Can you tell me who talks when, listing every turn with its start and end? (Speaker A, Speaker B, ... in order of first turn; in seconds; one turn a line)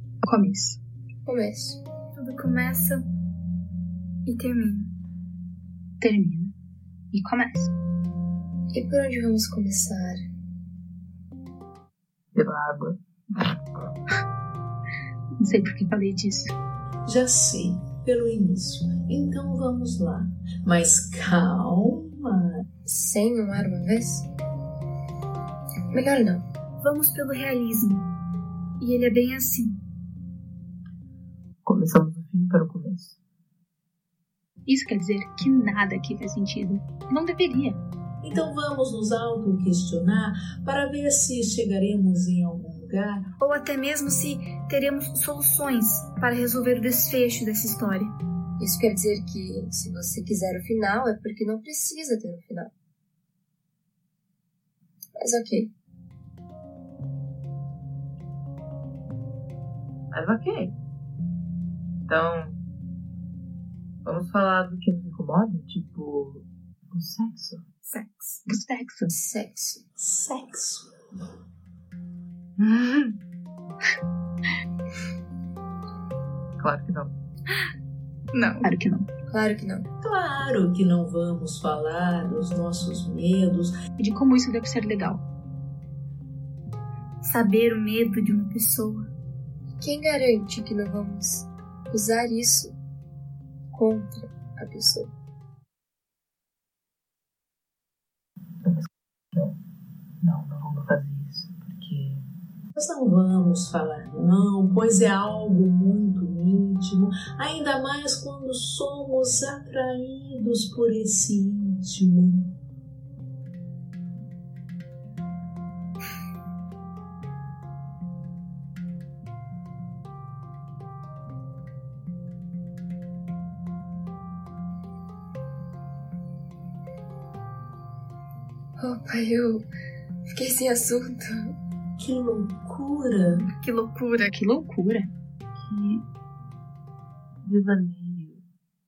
Speaker A: 0.2-0.8
Speaker B: 1.3-1.8
Speaker C: 2.1-3.0
Speaker C: 4.2-4.9
Speaker A: 6.0-6.5
Speaker A: 7.1-7.7
Speaker B: 8.7-10.2
Speaker D: 12.3-13.5
Speaker A: 15.4-16.5
Speaker E: 17.1-22.6
Speaker B: 22.9-24.3
Speaker B: 25.9-26.4
Speaker C: 26.8-28.1
Speaker C: 28.8-29.8
Speaker D: 31.6-33.1
Speaker A: 34.6-37.8
Speaker E: 38.2-43.3
Speaker C: 43.4-48.1
Speaker B: 48.6-52.7
Speaker B: 55.2-55.7
Speaker D: 60.1-60.7
Speaker D: 62.1-62.6
Speaker D: 64.0-67.6
Speaker C: 67.8-68.4
Speaker A: 68.5-69.1
Speaker B: 69.1-69.8
Speaker E: 70.0-70.9
Speaker D: 72.6-73.2
Speaker D: 76.6-77.1
Speaker C: 78.3-78.7
Speaker A: 78.6-79.1
Speaker B: 79.3-79.8
Speaker E: 80.0-83.7
Speaker A: 84.0-85.2
Speaker C: 87.2-89.0
Speaker B: 89.8-92.8
Speaker B: 93.7-95.1
Speaker D: 98.6-99.5
Speaker D: 100.2-102.2
Speaker E: 102.7-112.5
Speaker B: 128.8-129.7
Speaker B: 130.3-131.5
Speaker E: 132.0-133.5
Speaker C: 133.5-134.3
Speaker A: 134.2-135.1
Speaker D: 135.6-136.0
Speaker D: 137.4-138.4